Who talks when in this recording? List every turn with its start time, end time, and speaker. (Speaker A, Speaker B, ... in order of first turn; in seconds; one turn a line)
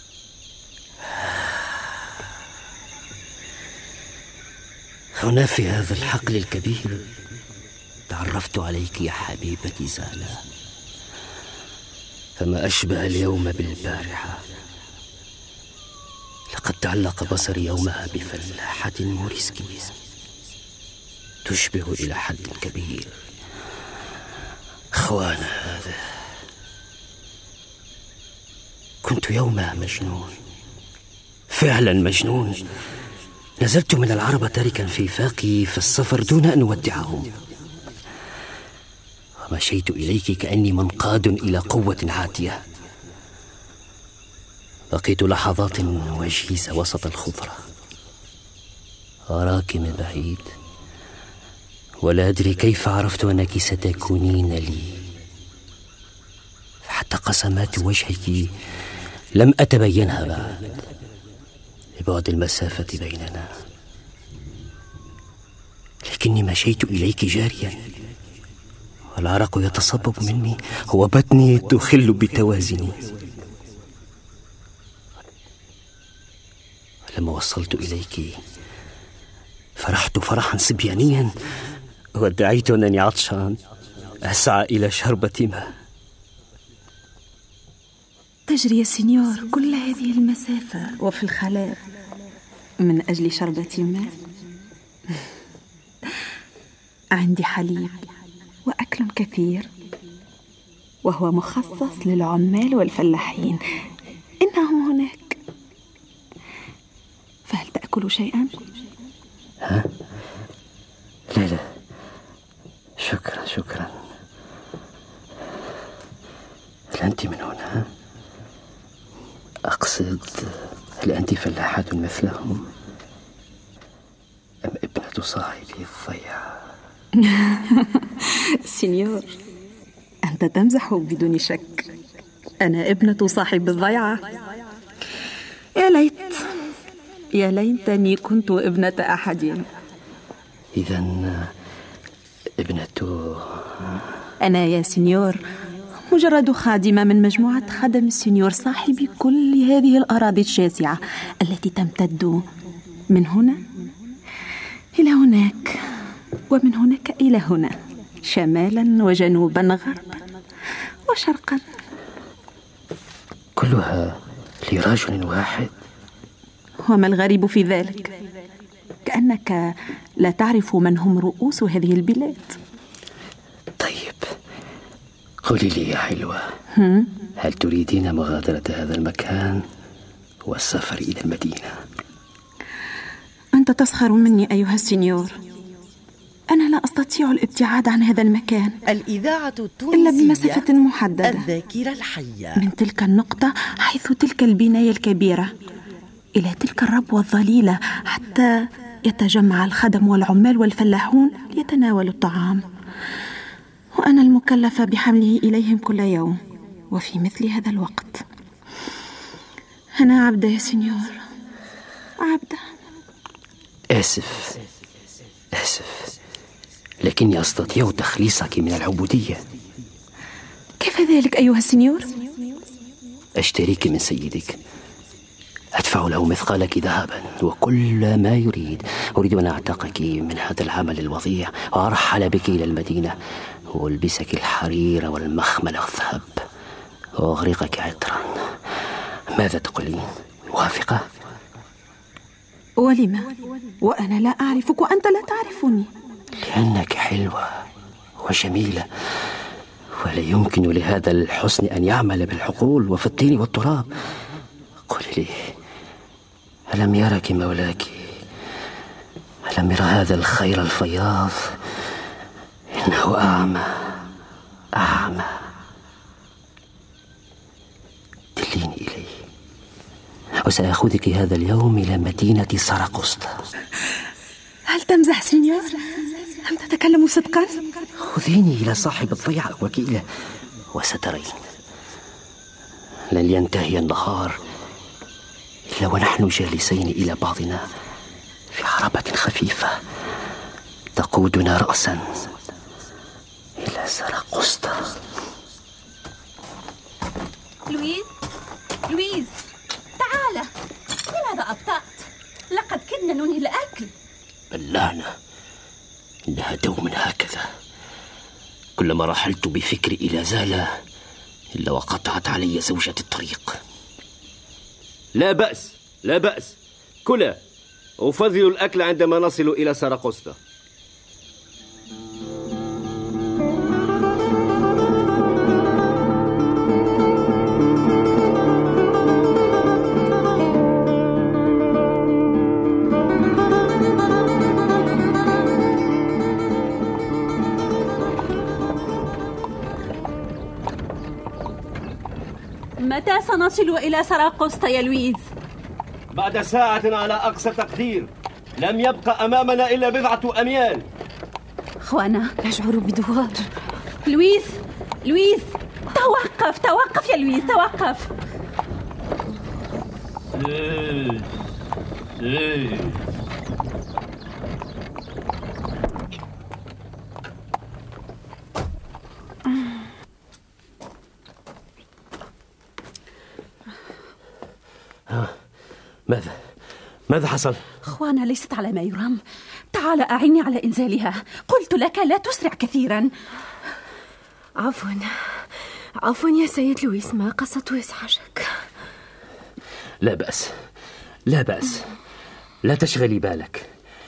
Speaker A: 1.1-1.9
Speaker A: 5.1-7.0
Speaker A: 8.1-10.4
Speaker A: 12.4-14.4
Speaker A: 16.5-19.9
Speaker A: 21.4-23.1
Speaker A: 24.9-26.2
Speaker A: 29.0-30.4
Speaker A: 31.5-32.7
Speaker A: 33.6-37.3
Speaker A: 39.4-42.6
Speaker A: 44.9-47.6
Speaker A: 49.3-50.5
Speaker A: 52.0-55.0
Speaker A: 56.8-58.5
Speaker A: 59.4-60.8
Speaker A: 62.0-63.5
Speaker A: 66.0-67.8
Speaker A: 69.1-73.0
Speaker A: 77.1-78.4
Speaker A: 79.8-81.3
Speaker A: 82.2-83.6
Speaker A: 84.2-85.7
Speaker B: 88.5-91.8
Speaker B: 92.8-94.1
Speaker B: 97.1-98.0
Speaker B: 98.7-99.7
Speaker B: 101.0-103.6
Speaker B: 104.4-105.4
Speaker B: 107.5-108.5
Speaker A: 109.6-109.9
Speaker A: 111.3-111.6
Speaker A: 113.0-113.9
Speaker A: 116.9-117.9
Speaker A: 119.7-122.7
Speaker A: 124.6-126.5
Speaker B: 127.2-129.3
Speaker B: 130.2-131.9
Speaker B: 132.6-134.2
Speaker B: 135.8-136.6
Speaker B: 137.3-139.7
Speaker A: 140.7-141.5
Speaker A: 142.6-143.9
Speaker B: 144.4-145.4
Speaker B: 146.1-152.4
Speaker B: 153.1-153.6
Speaker B: 154.9-155.8
Speaker B: 156.5-157.7
Speaker B: 158.2-160.2
Speaker B: 161.1-161.6
Speaker A: 163.6-165.7
Speaker B: 166.8-168.1
Speaker B: 169.1-172.6
Speaker A: 173.8-174.3
Speaker A: 175.4-176.5
Speaker B: 176.8-177.1
Speaker A: 177.4-179.6
Speaker A: 180.4-181.8
Speaker B: 183.6-185.4
Speaker B: 186.5-188.8
Speaker C: 188.9-190.7
Speaker B: 189.9-191.4
Speaker C: 191.2-192.7
Speaker B: 192.6-195.5
Speaker B: 196.4-202.6
Speaker B: 204.0-206.4
Speaker B: 206.9-208.2
Speaker B: 210.0-211.2
Speaker B: 212.2-212.6
Speaker A: 213.9-214.6
Speaker A: 215.5-216.1
Speaker A: 217.0-219.4
Speaker B: 220.8-222.4
Speaker A: 223.4-224.6
Speaker A: 225.8-233.2
Speaker A: 233.7-236.4
Speaker A: 237.2-238.5
Speaker A: 239.3-241.0
Speaker B: 242.8-245.9
Speaker A: 246.4-247.5
Speaker A: 248.2-248.9
Speaker A: 250.0-253.9
Speaker A: 254.9-255.5
Speaker A: 256.7-258.2
Speaker A: 259.4-261.6
Speaker A: 262.7-264.0
Speaker A: 264.7-265.4
Speaker A: 268.4-269.1
Speaker A: 270.4-273.3
Speaker B: 274.7-277.8
Speaker A: 278.0-280.1
Speaker A: 280.7-281.4
Speaker A: 283.1-284.4
Speaker A: 285.7-287.7
Speaker A: 288.5-289.8
Speaker A: 290.9-292.2
Speaker A: 293.6-294.9
Speaker D: 297.7-298.1
Speaker D: 298.9-299.4
Speaker D: 300.0-300.5
Speaker D: 301.1-303.9
Speaker A: 304.5-305.1
Speaker A: 306.3-307.5
Speaker A: 308.8-310.7
Speaker A: 311.6-313.6
Speaker E: 315.1-317.4
Speaker E: 318.0-320.4
Speaker D: 342.8-345.2
Speaker E: 346.1-350.9
Speaker D: 351.8-352.3
Speaker F: 352.4-353.5
Speaker D: 354.0-358.1
Speaker A: 375.1-375.3
Speaker A: 376.1-376.4
Speaker A: 377.1-377.6
Speaker D: 377.8-379.2
Speaker D: 379.7-383.1
Speaker F: 384.6-385.1
Speaker F: 386.0-388.5
Speaker A: 390.0-390.5
Speaker A: 391.3-391.9
Speaker A: 392.6-393.7